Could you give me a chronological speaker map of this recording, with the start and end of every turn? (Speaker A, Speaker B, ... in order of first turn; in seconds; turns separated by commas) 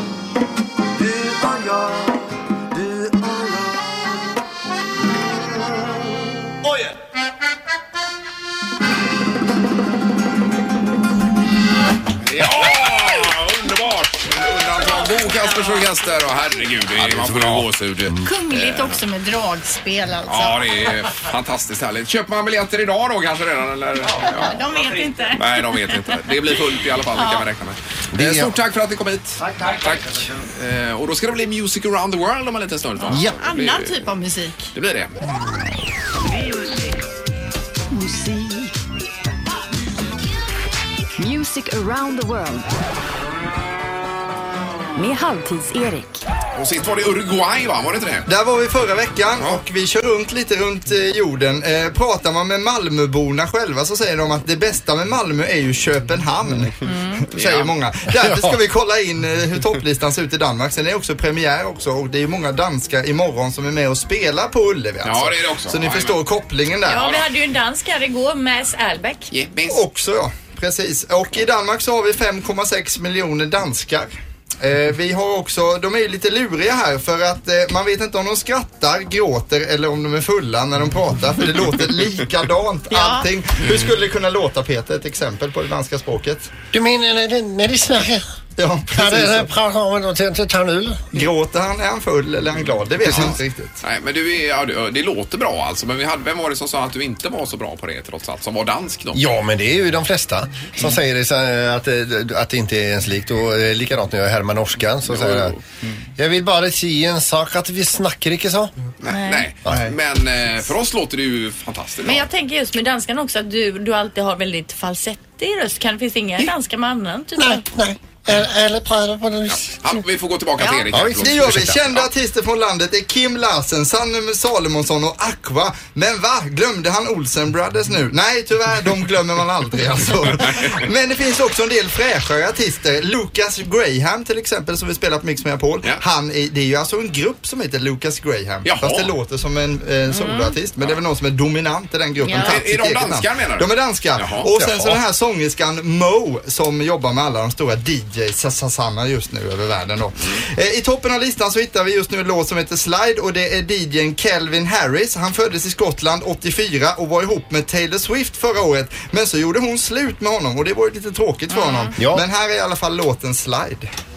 Speaker A: 0.9-4.4, Speaker A: 5.2-6.7, Speaker B: 12.2-19.0, Speaker C: 15.5-15.8, Speaker D: 17.0-18.3, Speaker C: 18.2-20.6, Speaker B: 20.3-24.6, Speaker C: 24.3-26.0, Speaker B: 25.4-34.0, Speaker C: 27.2-27.4, Speaker D: 28.1-28.6, Speaker D: 33.1-33.4, Speaker C: 33.4-34.6, Speaker B: 34.7-35.2, Speaker E: 37.9-38.7, Speaker E: 41.2-42.7, Speaker E: 45.0-46.2, Speaker B: 46.5-48.3, Speaker F: 48.3-67.2, Speaker C: 56.8-57.2, Speaker B: 57.4-57.7, Speaker D: 58.3-58.6, Speaker B: 65.0-66.2, Speaker C: 66.9-69.3, Speaker B: 69.3-69.8, Speaker F: 69.7-74.1, Speaker F: 74.6-86.6, Speaker C: 82.9-83.3, Speaker D: 86.7-88.3, Speaker F: 88.6-89.5, Speaker D: 88.9-91.2, Speaker F: 91.1-93.8, Speaker D: 93.0-93.4, Speaker B: 93.0-99.2, Speaker D: 99.1-105.6, Speaker B: 105.1-105.6, Speaker D: 106.2-108.7, Speaker B: 109.0-112.3, Speaker C: 109.1-109.5, Speaker C: 112.0-117.7, Speaker D: 117.4-120.0, Speaker B: 119.5-122.1, Speaker C: 120.6-120.9, Speaker D: 120.9-121.8, Speaker F: 121.2-163.9, Speaker B: 138.6-139.1, Speaker C: 140.1-140.6, Speaker C: 142.2-142.6, Speaker B: 142.3-145.0, Speaker C: 161.5-161.9, Speaker D: 162.0-162.2